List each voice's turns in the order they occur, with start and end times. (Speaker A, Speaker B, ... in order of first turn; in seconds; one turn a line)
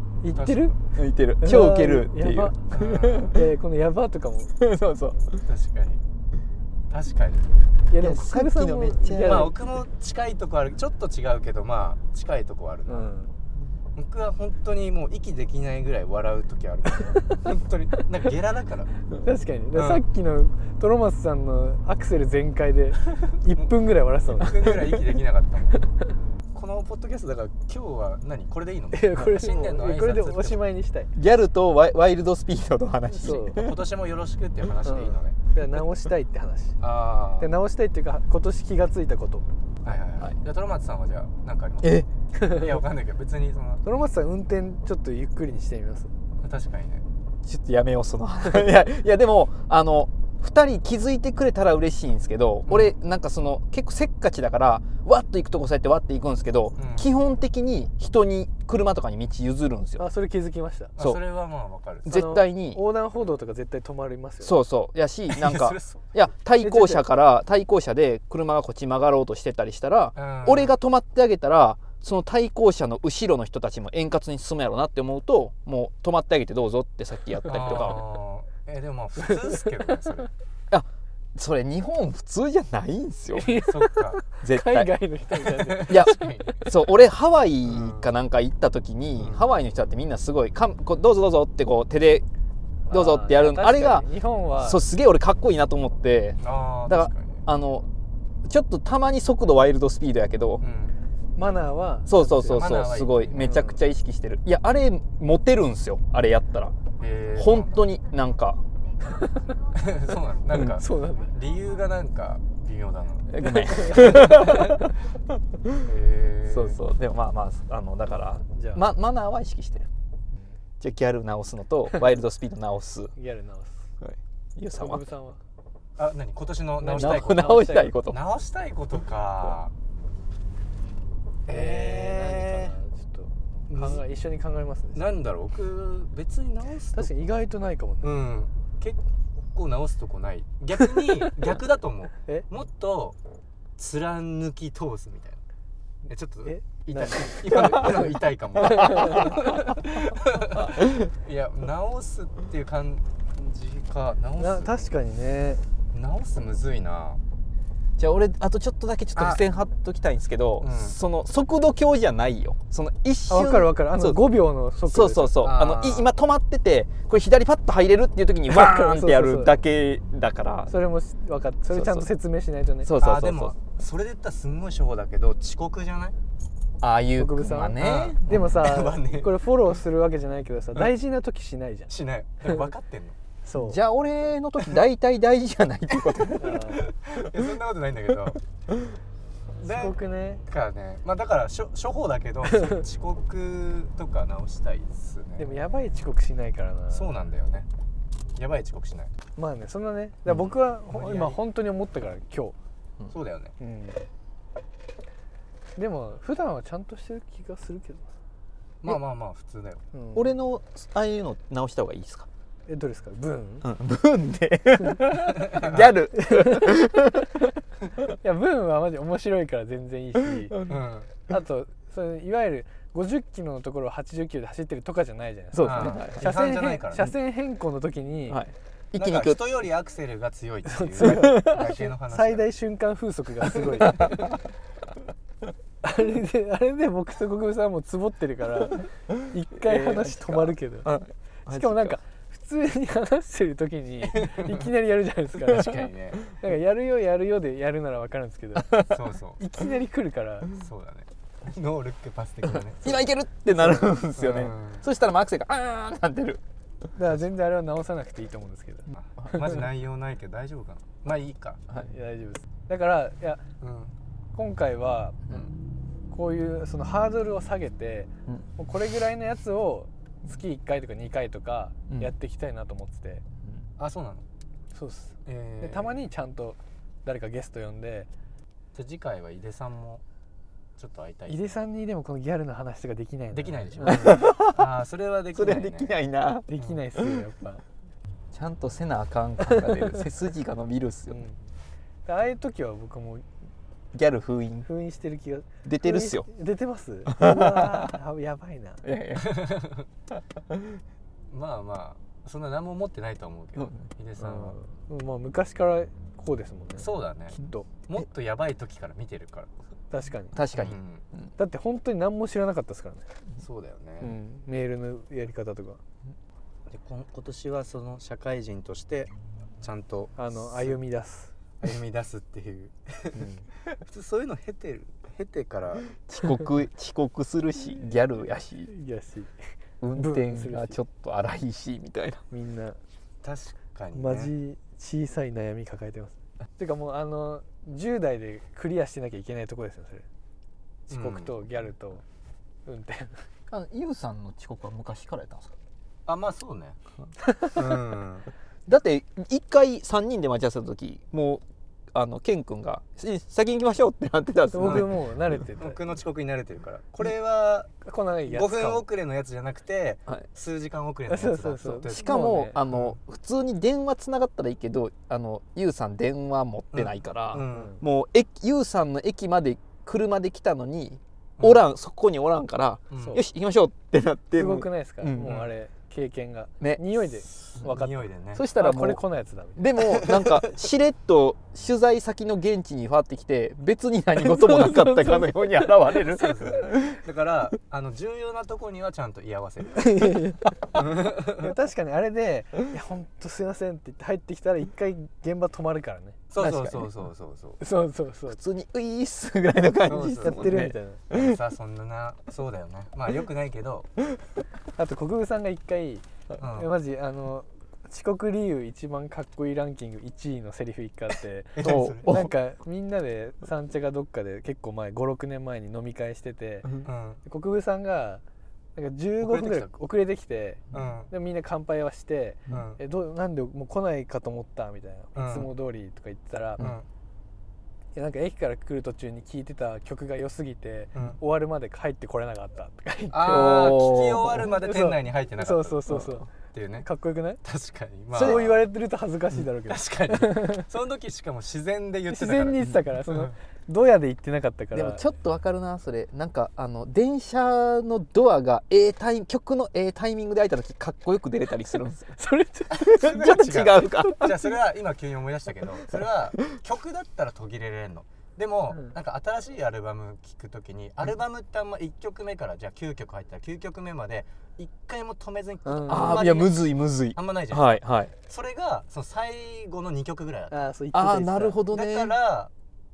Speaker A: 0.2-0.8
Speaker B: 0.3-0.7
Speaker C: 0.9-2.5
Speaker A: 1.4-4.5
Speaker B: 2.7-3.4
Speaker C: 4.6-5.5
Speaker B: 5.5-6.0
Speaker B: 6.9-7.5
Speaker A: 7.9-9.5
Speaker C: 8.0-9.5
Speaker B: 9.1-13.1
Speaker A: 12.9-13.3
Speaker B: 14.0-18.9
Speaker A: 17.1-17.4
Speaker A: 19.2-24.8
Speaker B: 19.7-20.0
Speaker B: 24.3-25.9
Speaker B: 26.5-30.6
Speaker A: 28.9-31.1
Speaker C: 31.2-33.8
Speaker A: 33.1-33.6
Speaker B: 33.5-35.4
Speaker A: 34.9-36.8
Speaker B: 36.8-37.5
Speaker A: 37.4-39.5
Speaker C: 39.9-40.3
Speaker B: 39.9-43.8
Speaker C: 41.8-42.1
Speaker A: 43.8-46.1
Speaker B: 46.4-47.0
Speaker C: 47.5-60.0
Speaker B: 52.7-53.0
Speaker B: 56.8-57.1
Speaker A: 60.0-60.9
Speaker B: 61.0-62.2
Speaker C: 62.0-62.8
Speaker A: 62.1-64.6
Speaker C: 64.4-78.0
Speaker B: 65.3-66.0
Speaker A: 66.6-67.1
Speaker B: 70.2-70.7
Speaker B: 77.5-80.3
Speaker C: 80.7-83.6
Speaker A: 83.3-86.3
Speaker B: 83.4-84.2
Speaker C: 84.3-85.0
Speaker B: 85.4-86.7
Speaker C: 85.9-92.3
Speaker B: 87.7-88.1
Speaker B: 89.2-89.5
Speaker A: 92.9-94.8
Speaker C: 92.9-94.1
Speaker C: 94.6-97.9
Speaker B: 96.4-97.4
Speaker C: 98.5-100.6
Speaker B: 100.6-101.0
Speaker A: 101.4-102.7
Speaker C: 102.1-106.8
Speaker B: 102.5-103.5
Speaker A: 103.4-103.8
Speaker B: 107.0-107.8
Speaker C: 107.4-108.6
Speaker B: 109.7-114.8
Speaker A: 110.5-111.3
Speaker C: 113.3-114.8
Speaker A: 113.8-114.2
Speaker B: 115.8-116.8
Speaker C: 116.5-119.9
Speaker A: 118.5-118.8
Speaker C: 120.8-123.1
Speaker A: 123.2-123.9
Speaker C: 124.0-125.0
Speaker A: 124.8-125.4
Speaker B: 126.0-129.7
Speaker A: 126.8-128.0
Speaker C: 127.0-128.2
Speaker B: 131.5-132.8
Speaker A: 131.5-135.1
Speaker B: 133.7-134.0
Speaker B: 134.9-137.1
Speaker A: 136.9-138.2
Speaker B: 138.0-139.0
Speaker B: 139.5-143.2
Speaker B: 143.8-145.4
Speaker B: 146.1-154.8
Speaker A: 146.4-148.1
Speaker A: 148.6-149.4
Speaker A: 154.4-155.6
Speaker B: 155.9-157.2
Speaker C: 158.0-164.3
Speaker B: 159.2-159.4
Speaker B: 160.6-161.0
Speaker A: 163.3-165.5
Speaker C: 164.9-170.7
Speaker B: 165.4-166.1
Speaker A: 168.5-169.6
Speaker A: 170.7-172.9
Speaker C: 171.7-172.1
Speaker C: 172.8-173.6
Speaker B: 172.9-176.2
Speaker C: 176.8-178.2
Speaker A: 177.2-181.9
Speaker B: 177.8-179.3
Speaker B: 181.9-183.2
Speaker A: 183.5-183.8
Speaker C: 183.5-186.7
Speaker A: 186.4-186.9
Speaker B: 186.8-188.4
Speaker B: 189.6-190.0
Speaker A: 189.7-190.4
Speaker B: 190.5-195.6
Speaker A: 195.4-197.1
Speaker B: 196.9-197.7
Speaker B: 198.4-199.1
Speaker A: 199.4-202.6
Speaker B: 200.3-201.4
Speaker B: 203.1-203.5
Speaker A: 203.6-204.0
Speaker A: 205.8-208.1
Speaker B: 208.8-209.8
Speaker A: 209.9-210.3
Speaker C: 210.1-212.3
Speaker A: 212.7-213.7
Speaker C: 213.6-217.3
Speaker B: 215.4-215.9
Speaker A: 216.2-216.8
Speaker A: 218.2-220.7
Speaker B: 220.7-221.1
Speaker A: 221.3-228.4
Speaker C: 225.5-226.3
Speaker B: 225.7-227.1
Speaker C: 228.3-229.4
Speaker B: 228.9-232.5
Speaker A: 230.7-234.3
Speaker A: 235.8-240.9
Speaker C: 239.6-242.0
Speaker A: 241.5-250.5
Speaker B: 244.0-244.7
Speaker B: 245.3-246.2
Speaker B: 248.9-249.4
Speaker B: 250.5-253.1
Speaker C: 252.8-256.4
Speaker B: 254.2-254.9
Speaker A: 257.0-258.9
Speaker B: 259.0-261.6
Speaker A: 261.7-263.4
Speaker B: 263.6-263.9
Speaker A: 264.4-265.2
Speaker B: 265.3-265.5
Speaker A: 266.1-273.2
Speaker C: 271.9-272.1
Speaker B: 273.8-274.2
Speaker A: 274.7-278.1
Speaker B: 275.3-276.1
Speaker B: 278.7-280.0
Speaker B: 280.8-281.6
Speaker A: 281.3-284.3
Speaker B: 283.3-285.9
Speaker C: 283.8-284.6
Speaker C: 285.4-287.0
Speaker A: 286.5-287.6
Speaker C: 288.3-291.2
Speaker A: 289.4-289.9
Speaker A: 291.1-291.4
Speaker A: 292.1-293.2
Speaker C: 293.9-294.7
Speaker A: 294.7-298.8
Speaker C: 295.6-296.3
Speaker C: 297.1-297.9
Speaker C: 298.8-299.5
Speaker B: 299.2-299.8
Speaker C: 300.5-300.8
Speaker B: 301.3-304.6
Speaker C: 303.6-303.9
Speaker A: 304.2-307.7
Speaker B: 306.8-309.5
Speaker A: 309.9-310.4
Speaker C: 310.3-311.3
Speaker B: 310.5-311.0
Speaker A: 311.4-313.1
Speaker B: 313.4-314.2
Speaker A: 314.0-315.8
Speaker B: 316.7-320.8
Speaker A: 320.2-321.3
Speaker B: 321.6-326.0
Speaker C: 326.1-328.7
Speaker A: 328.6-329.3
Speaker C: 329.8-332.2
Speaker A: 329.9-330.8
Speaker A: 332.3-332.8
Speaker B: 333.2-334.4
Speaker A: 333.9-340.1
Speaker B: 340.9-341.4
Speaker A: 340.9-342.0
Speaker A: 342.7-343.3
Speaker C: 343.5-345.5
Speaker B: 346.1-346.8
Speaker B: 347.4-348.3
Speaker C: 348.7-351.4
Speaker C: 351.9-355.0
Speaker A: 354.5-355.8
Speaker B: 354.6-354.9
Speaker B: 355.6-357.7
Speaker A: 357.8-358.9
Speaker B: 358.3-363.0
Speaker A: 361.1-362.6
Speaker C: 361.9-375.4
Speaker B: 366.7-367.7
Speaker A: 367.5-367.8
Speaker B: 372.9-373.2
Speaker A: 374.3-379.7
Speaker B: 375.2-375.5
Speaker B: 377.6-378.5
Speaker C: 378.3-379.0
Speaker C: 379.6-387.0
Speaker B: 380.1-380.4
Speaker A: 384.2-386.0
Speaker B: 386.1-390.0
Speaker A: 389.8-390.5
Speaker B: 390.8-391.4
Speaker A: 391.3-396.2
Speaker B: 396.3-397.6
Speaker C: 396.4-396.9
Speaker A: 397.6-398.4
Speaker C: 398.3-401.4
Speaker B: 399.8-404.0
Speaker A: 400.2-401.0
Speaker A: 404.8-416.7
Speaker B: 406.4-406.7
Speaker B: 411.6-412.3
Speaker C: 411.6-412.3
Speaker B: 416.8-417.2
Speaker A: 417.2-418.2
Speaker A: 418.8-426.7
Speaker B: 419.2-419.7
Speaker B: 420.7-421.1
Speaker B: 422.5-422.8
Speaker B: 425.1-425.5
Speaker B: 426.6-426.9
Speaker A: 427.9-433.9
Speaker B: 430.9-431.2
Speaker B: 433.1-436.9
Speaker C: 433.2-434.5
Speaker A: 434.6-436.3
Speaker A: 436.8-437.4
Speaker B: 437.4-438.7
Speaker C: 438.1-438.4
Speaker A: 438.1-440.6
Speaker B: 439.6-443.3
Speaker A: 442.1-445.0
Speaker C: 444.7-452.1
Speaker A: 452.1-452.8
Speaker B: 452.7-470.7
Speaker C: 452.8-454.3
Speaker A: 454.0-454.5
Speaker A: 465.6-466.3
Speaker C: 465.9-468.1
Speaker A: 470.5-471.6
Speaker C: 470.9-472.1
Speaker B: 471.7-472.5